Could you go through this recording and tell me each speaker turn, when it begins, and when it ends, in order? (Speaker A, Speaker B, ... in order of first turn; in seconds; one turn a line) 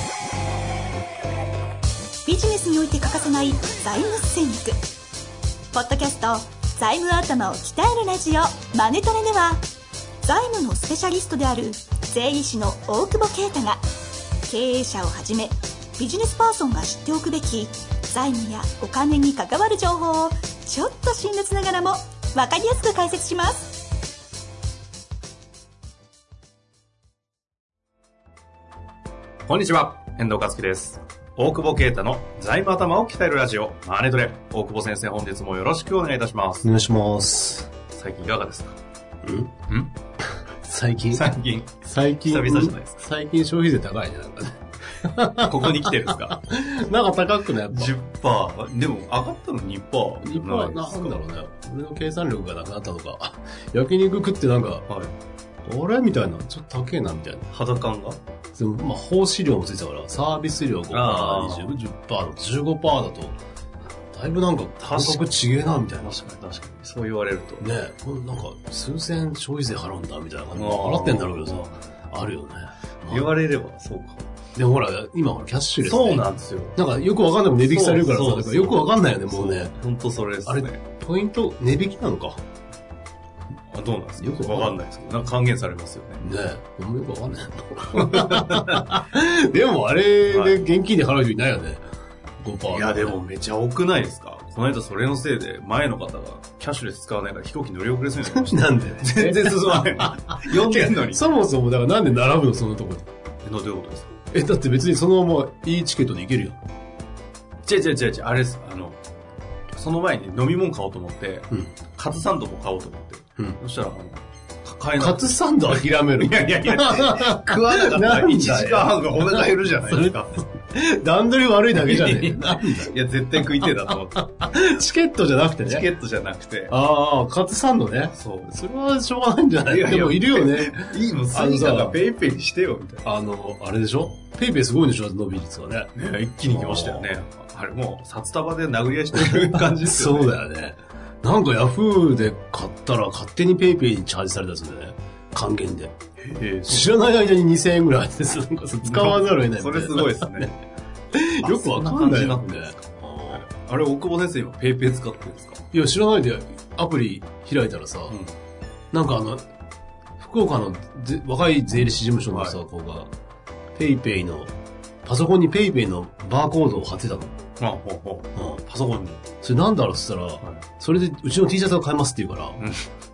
Speaker A: 2.2-4.8
Speaker A: 5.7-9.6
Speaker A: 10.2-13.8
Speaker A: 14.4-23.9
Speaker B: 29.5-36.7
Speaker C: 36.6-37.7
Speaker B: 37.9-38.8
Speaker C: 39.2-39.5
Speaker C: 40.6-41.3
Speaker B: 41.1-43.0
Speaker C: 41.8-47.9
Speaker B: 45.4-46.4
Speaker B: 47.7-51.2
Speaker C: 50.2-54.8
Speaker B: 54.9-55.1
Speaker C: 55.6-57.5
Speaker B: 57.5-58.2
Speaker C: 58.5-63.4
Speaker B: 60.9-61.8
Speaker C: 64.1-66.2
Speaker B: 64.8-65.2
Speaker B: 66.0-67.7
Speaker C: 67.6-73.3
Speaker B: 70.5-71.8
Speaker B: 73.1-74.3
Speaker C: 74.5-79.8
Speaker B: 75.8-76.8
Speaker B: 77.6-80.8
Speaker C: 80.5-82.4
Speaker B: 83.7-86.2
Speaker C: 84.2-84.8
Speaker C: 86.2-91.8
Speaker B: 87.9-88.9
Speaker B: 90.3-90.6
Speaker C: 92.4-93.2
Speaker B: 92.7-101.2
Speaker C: 98.2-103.1
Speaker B: 103.4-104.1
Speaker C: 104.3-106.6
Speaker B: 107.6-109.0
Speaker B: 109.7-120.4
Speaker C: 115.0-122.9
Speaker B: 121.7-124.3
Speaker C: 123.6-125.8
Speaker B: 125.6-126.7
Speaker C: 126.7-132.0
Speaker B: 128.1-128.5
Speaker B: 129.6-133.1
Speaker C: 133.0-135.9
Speaker B: 135.9-140.4
Speaker C: 136.5-137.1
Speaker C: 139.1-145.9
Speaker B: 146.2-146.9
Speaker C: 146.7-150.5
Speaker B: 148.8-150.5
Speaker C: 151.1-153.4
Speaker B: 151.4-155.6
Speaker C: 155.7-158.2
Speaker C: 158.9-159.4
Speaker C: 160.2-163.1
Speaker B: 162.3-162.6
Speaker C: 163.7-164.5
Speaker C: 165.0-167.4
Speaker B: 167.6-169.2
Speaker C: 168.3-168.6
Speaker C: 169.4-172.6
Speaker B: 172.6-172.8